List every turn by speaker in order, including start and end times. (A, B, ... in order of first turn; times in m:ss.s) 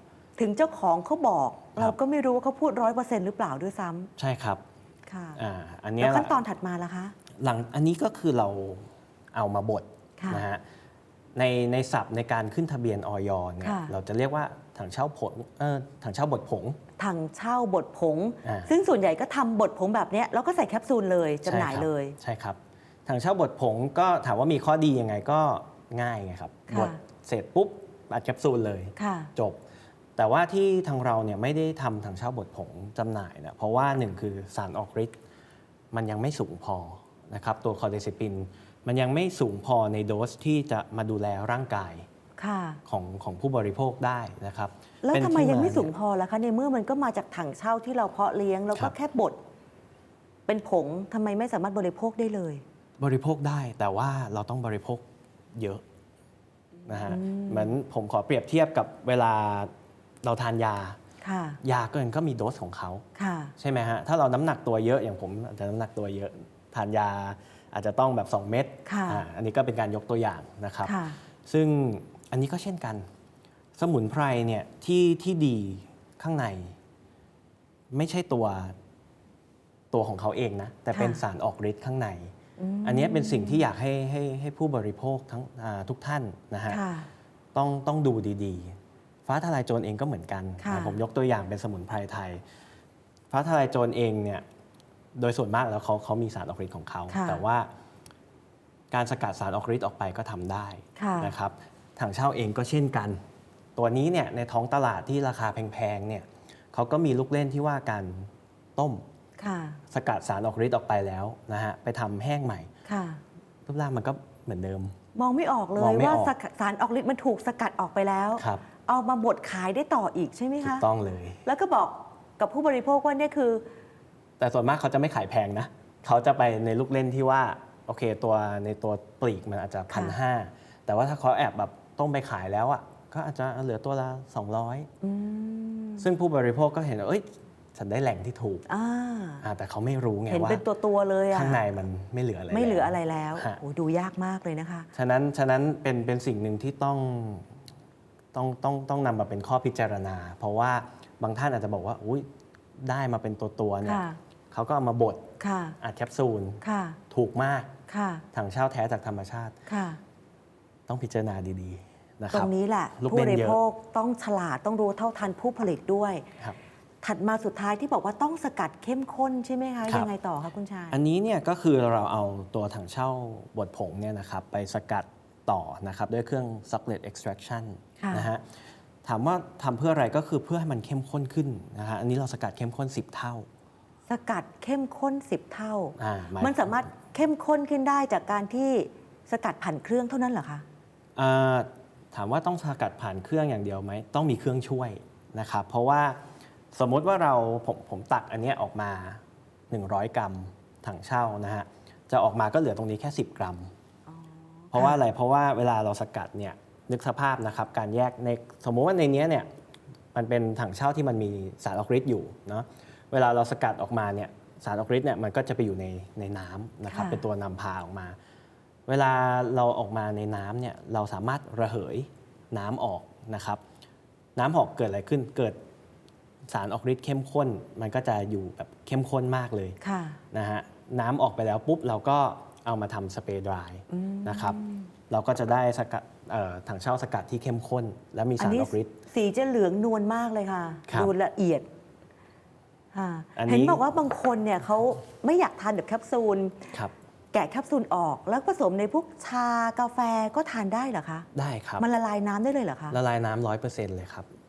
0:00.4-0:04.1 A
0:04.2-0:04.6 B
0:05.1-0:05.4 A
0:05.4-0:06.4 B
0:06.0-0:07.2 A
0:07.4-0:10.6 B
0:10.2-0:10.4 A
0:11.4-0:16.8 B
0:13.6-0:13.9 A
0:17.0-0:22.2 A
0:18.4-0:18.7 B
0:21.4-0:29.6 B
0:26.7-0:27.0 A
0:29.0-0:29.3 A
0:30.2-0:35.1 B
0:35.9-0:42.1 B
0:42.4-0:42.8 A
0:42.8-0:45.9 B
0:45.0-0:49.4 A
0:50.5-0:52.6 A
0:53.0-0:55.8 B
0:56.9-0:59.7 B
0:56.9-0:57.8 A
1:00.2-1:01.0 B
1:01.2-1:01.6 A
1:01.6-1:03.0 B
1:03.2-1:03.5 A
1:03.6-1:13.1 B
1:08.9-1:09.2 A
1:10.8-1:11.2 A
1:13.8-1:16.8 B
1:17.9-1:18.8 B
1:19.9-1:26.8 B
1:20.9-1:21.2 A
1:22.6-1:23.6 A
1:26.7-1:27.1 A
1:27.5-1:32.4 B
1:30.6-1:31.0 A
1:33.3-1:34.4 B
1:35.1-1:37.7 B
1:37.1-1:37.4 A
1:38.9-1:43.2 B
1:41.0-1:41.3 A
1:43.8-1:49.0 B
1:49.4-1:49.8 A
1:49.9-1:52.7 B
1:52.8-1:53.2 A
1:53.6-1:55.0 B
1:55.1-2:00.9 A
1:55.8-1:56.3 B
1:58.4-1:58.6 B
2:00.6-2:01.4 B
2:01.4-2:03.6 A
2:04.4-2:14.9 B
2:09.9-2:10.2 A
2:15.0-2:16.1 A
2:16.0-2:18.6 B
2:18.7-2:19.4 A
2:19.4-2:20.6 B
2:20.3-2:21.6 A
2:21.3-2:23.6 B
2:22.5-2:24.9 A
2:24.9-2:27.6 B
2:28.3-2:32.3 B
2:32.8-2:35.3 B
2:33.8-2:34.2 A
2:35.4-2:35.8 A
2:35.8-2:37.8 B
2:36.6-2:37.0 A
2:37.9-2:38.2 A
2:38.3-2:39.6 B
2:39.7-2:40.0 A
2:40.9-2:43.6 B
2:42.3-2:46.2 A
2:47.0-2:51.0 A
2:50.9-3:03.5 B
2:58.0-2:58.3 A
3:04.1-3:10.6 A
3:06.0-3:06.8 B
3:11.2-3:16.2 B
3:16.7-3:23.7 B
3:24.1-3:25.0 A
3:24.7-3:29.5 B
3:30.1-3:38.2 B
3:36.9-3:37.2 A
3:38.9-3:43.6 B
3:44.4-3:45.6 B
3:46.5-3:49.8 B
3:49.8-3:50.2 A
3:50.3-3:54.6 B
3:53.9-3:54.9 A
3:55.1-3:58.9 B
3:58.4-4:01.7 A
4:00.9-4:01.1 B
4:02.9-4:06.7 A
4:03.4-4:03.8 B
4:07.3-4:11.3 A
4:11.3-4:11.8 B
4:11.8-4:13.0 A
4:12.9-4:14.3 B